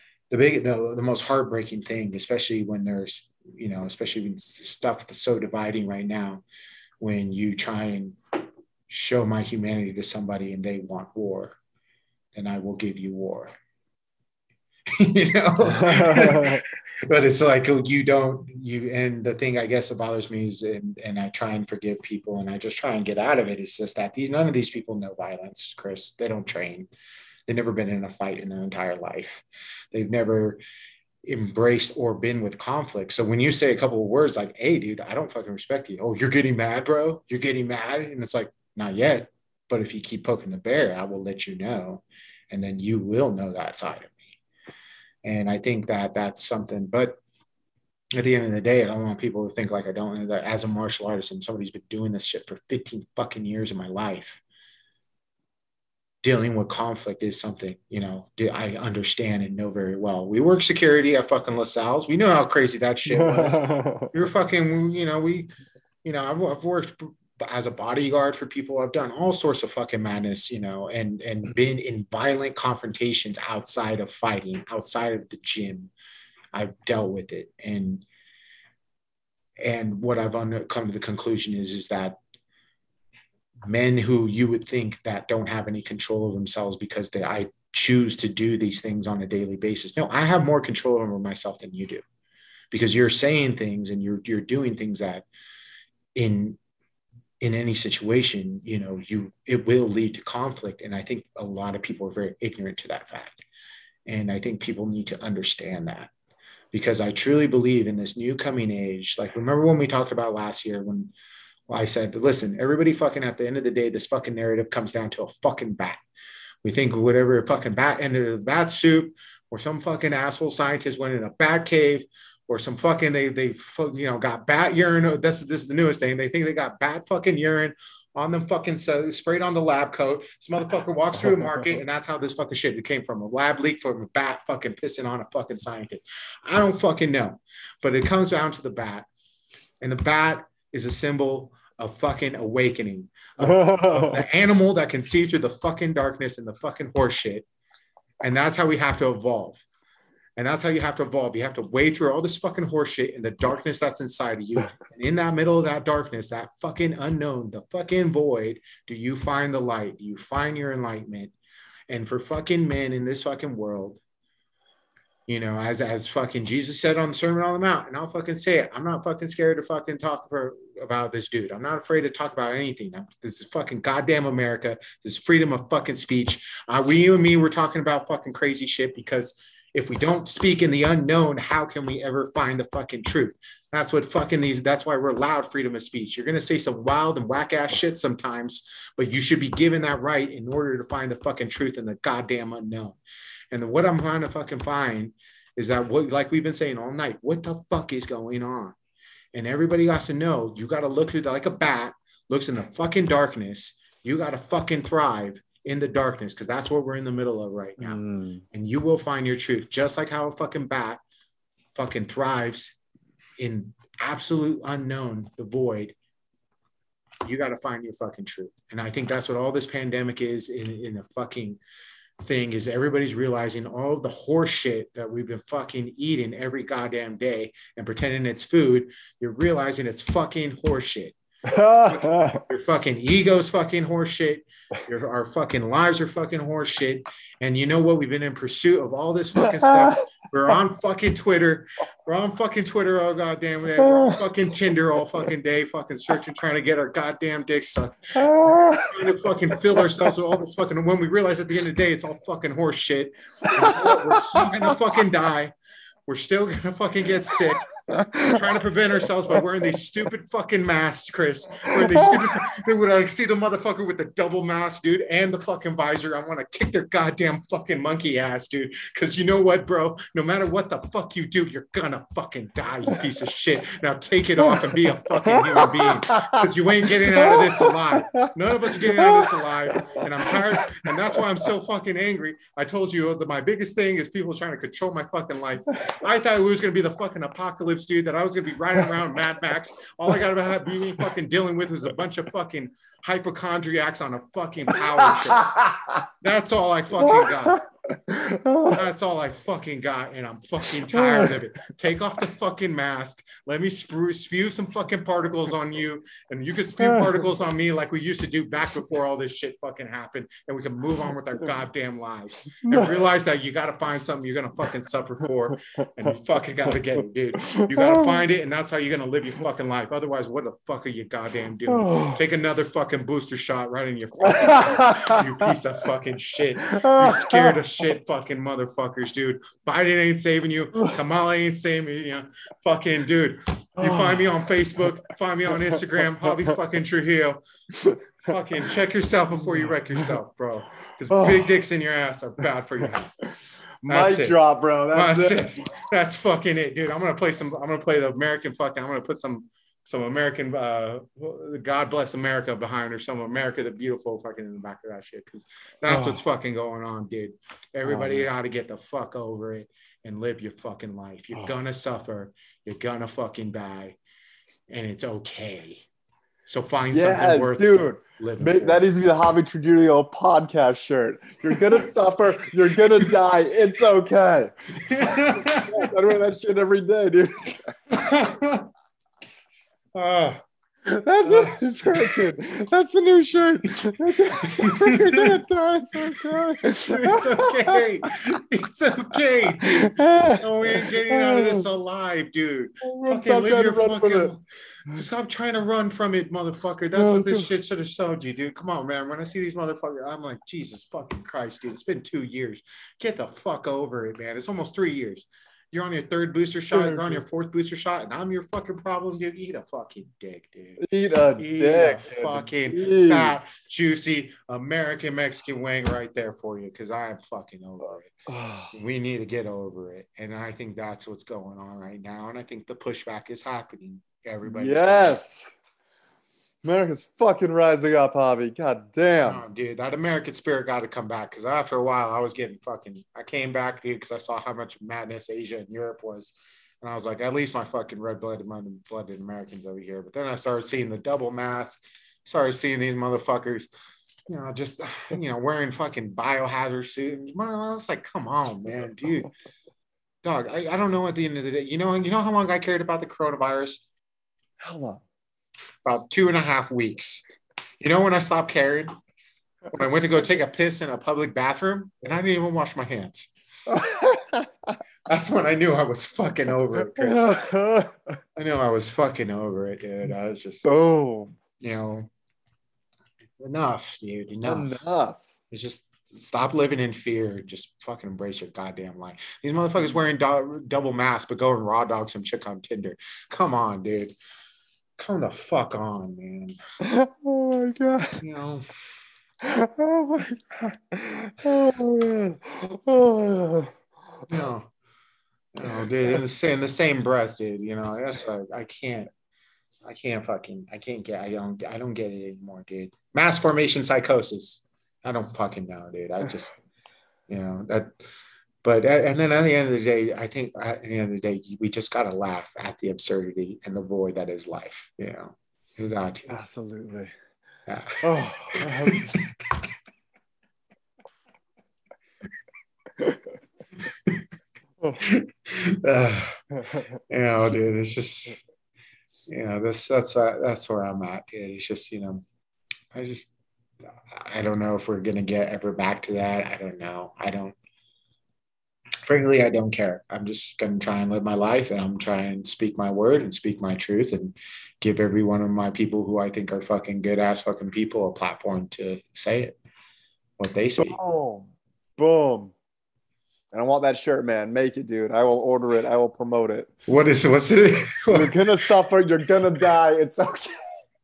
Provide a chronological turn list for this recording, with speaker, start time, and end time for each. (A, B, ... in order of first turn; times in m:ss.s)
0:00.3-0:06.4 A
0:07.0-0:08.2 A
0:08.9-0:11.6 A
0:12.3-0:13.6 A
0:15.0-0:26.9 A
0:15.6-0:16.6 B
0:27.5-0:30.6 A
0:31.2-0:44.4 A
0:45.2-0:47.2 A
0:48.2-0:54.4 A
0:56.2-1:05.5 A
1:03.1-1:04.1 B
1:06.0-1:15.9 A
1:16.5-1:18.0 A
1:19.6-1:22.2 A
1:23.7-1:32.0 A
1:32.7-1:35.2 A
1:36.2-1:36.6 A
1:37.4-1:43.4 A
1:44.1-1:46.1 A
1:46.7-1:51.1 A
1:51.7-1:56.0 A
1:56.6-2:19.1 A
2:19.8-2:27.4 A
2:23.4-2:24.2 B
2:28.2-2:29.6 A
2:30.4-2:41.3 A
2:41.9-2:44.0 A
2:45.3-3:13.0 A
3:13.5-3:18.7 A
3:19.3-3:31.0 A
3:27.8-3:28.4 B
3:31.7-3:32.7 A
3:33.4-3:36.0 A
3:37.2-3:41.6 A
3:42.2-3:51.2 A
3:51.4-3:52.4 B
3:51.9-4:15.5 A
3:59.5-4:00.0 B
4:03.8-4:04.2 B
4:08.2-4:09.8 B
4:13.5-4:14.5 B
4:16.1-4:57.6 A
4:17.9-4:18.5 B
4:21.8-4:22.2 B
4:35.2-4:36.4 B
4:37.1-4:41.2 B
4:55.0-4:56.0 B
4:57.0-4:58.8 B
4:58.6-5:37.4 A
5:00.8-5:01.4 B
5:06.8-5:07.2 B
5:12.6-5:13.0 B
5:17.4-5:18.2 B
5:21.7-5:22.2 B
5:24.2-5:25.2 B
5:26.6-5:27.6 B
5:33.8-5:34.4 B
5:37.8-5:38.0 B
5:38.2-5:43.2 A
5:41.1-5:41.5 B
5:43.8-5:45.6 B
5:43.8-5:44.4 A
5:44.9-6:04.0 A
5:55.9-5:56.2 B
5:57.8-5:58.3 B
6:04.7-6:05.8 A
6:06.5-6:08.8 A
6:06.9-6:18.0 B
6:14.8-6:15.8 A
6:17.9-6:18.7 A
6:19.9-6:20.4 A
6:20.8-6:28.4 B
6:21.2-6:22.1 A
6:24.4-6:25.4 A
6:26.0-6:50.8 A
6:29.5-6:31.7 B
6:32.8-6:34.3 B
6:36.9-6:37.5 B
6:46.7-6:47.2 B
6:50.8-6:53.4 B
6:51.4-6:58.1 A
6:58.3-6:58.7 B
6:58.7-7:05.2 A
7:04.4-7:05.5 B
7:06.6-7:09.4 B
7:09.2-7:23.7 A
7:24.3-7:29.3 A
7:30.2-7:33.8 A
7:34.6-7:35.0 B
7:35.8-7:37.2 A
7:37.8-7:38.9 A
7:39.7-7:43.3 A
7:43.7-7:44.8 B
7:45.1-7:47.4 A
7:46.8-7:48.2 B
7:48.4-7:50.8 A
7:50.6-7:51.4 B
7:51.6-7:52.1 A
7:53.4-7:54.8 A
7:54.4-7:55.3 B
7:55.5-8:04.1 A
8:05.0-8:06.6 A
8:06.8-8:08.2 B
8:08.2-8:08.7 A
8:09.4-8:13.7 B
8:14.3-8:14.7 A
8:15.5-8:19.1 A
8:19.8-8:26.6 A
8:27.3-8:27.9 A
8:28.6-8:36.3 A
8:36.3-8:37.1 B
8:37.7-8:39.2 A
8:38.0-8:39.2 B
8:43.0-8:43.3 B
8:43.9-8:44.2 A
8:45.0-8:48.4 A
8:49.3-8:52.2 A
8:52.9-8:53.3 A
8:54.1-8:57.6 A
8:59.0-9:09.6 A
9:10.4-9:11.0 A
9:10.8-9:12.5 B
9:13.5-9:16.7 B
9:16.9-9:18.4 A
9:18.1-9:20.6 B